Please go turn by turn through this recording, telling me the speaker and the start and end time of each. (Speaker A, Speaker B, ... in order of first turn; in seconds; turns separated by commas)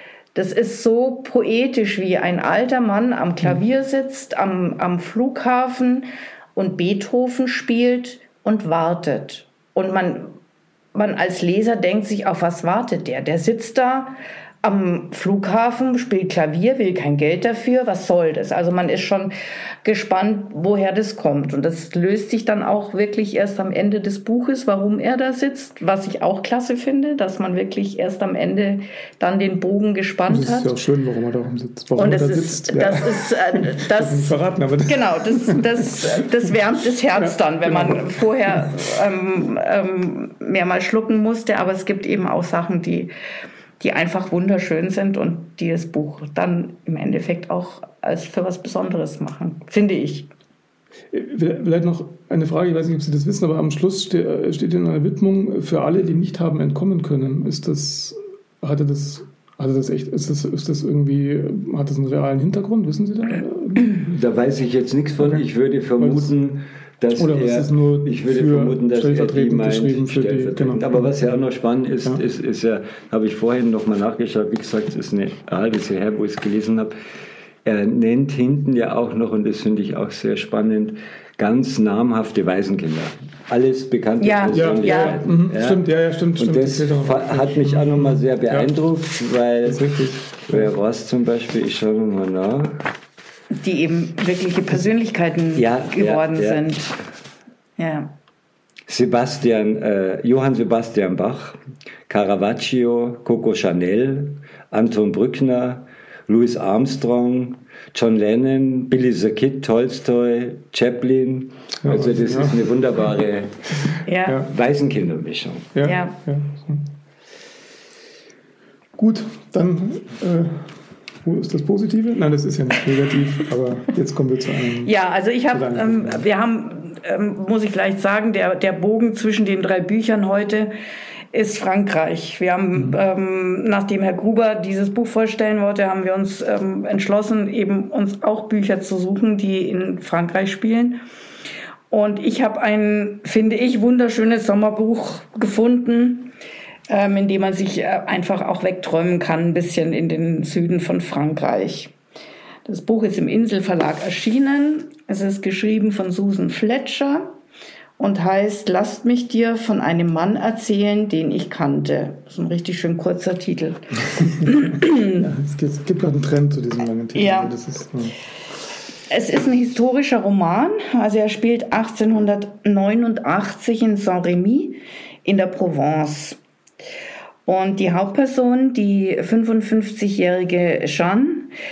Speaker A: 0.3-10.4, Speaker A: 10.9-30.7, Speaker B: 30.3-36.0, Speaker A: 32.0-34.3, Speaker A: 34.9-43.1, Speaker B: 37.2-38.7, Speaker A: 43.8-50.3, Speaker B: 51.1-64.0, Speaker C: 64.0-77.0, Speaker B: 65.2-65.5, Speaker B: 66.0-66.3, Speaker B: 67.2-71.3, Speaker C: 77.7-85.8, Speaker A: 84.2-85.2, Speaker B: 84.5-88.7, Speaker C: 86.4-92.8, Speaker B: 89.6-90.7, Speaker A: 93.6-97.0, Speaker C: 95.5-96.6, Speaker A: 97.8-98.2, Speaker C: 98.9-113.8, Speaker B: 111.8-112.6, Speaker A: 114.0-114.4, Speaker C: 114.5-115.7, Speaker B: 115.7-116.9, Speaker A: 115.8-116.2, Speaker B: 119.0-120.7, Speaker B: 121.2-124.9, Speaker A: 124.8-130.7, Speaker B: 125.5-126.2, Speaker A: 131.3-141.0, Speaker A: 141.9-146.3, Speaker A: 146.9-151.9, Speaker A: 152.7-157.3, Speaker A: 158.0-165.2, Speaker B: 164.5-168.2, Speaker A: 167.2-167.5, Speaker A: 169.1-176.4, Speaker A: 177.4-181.5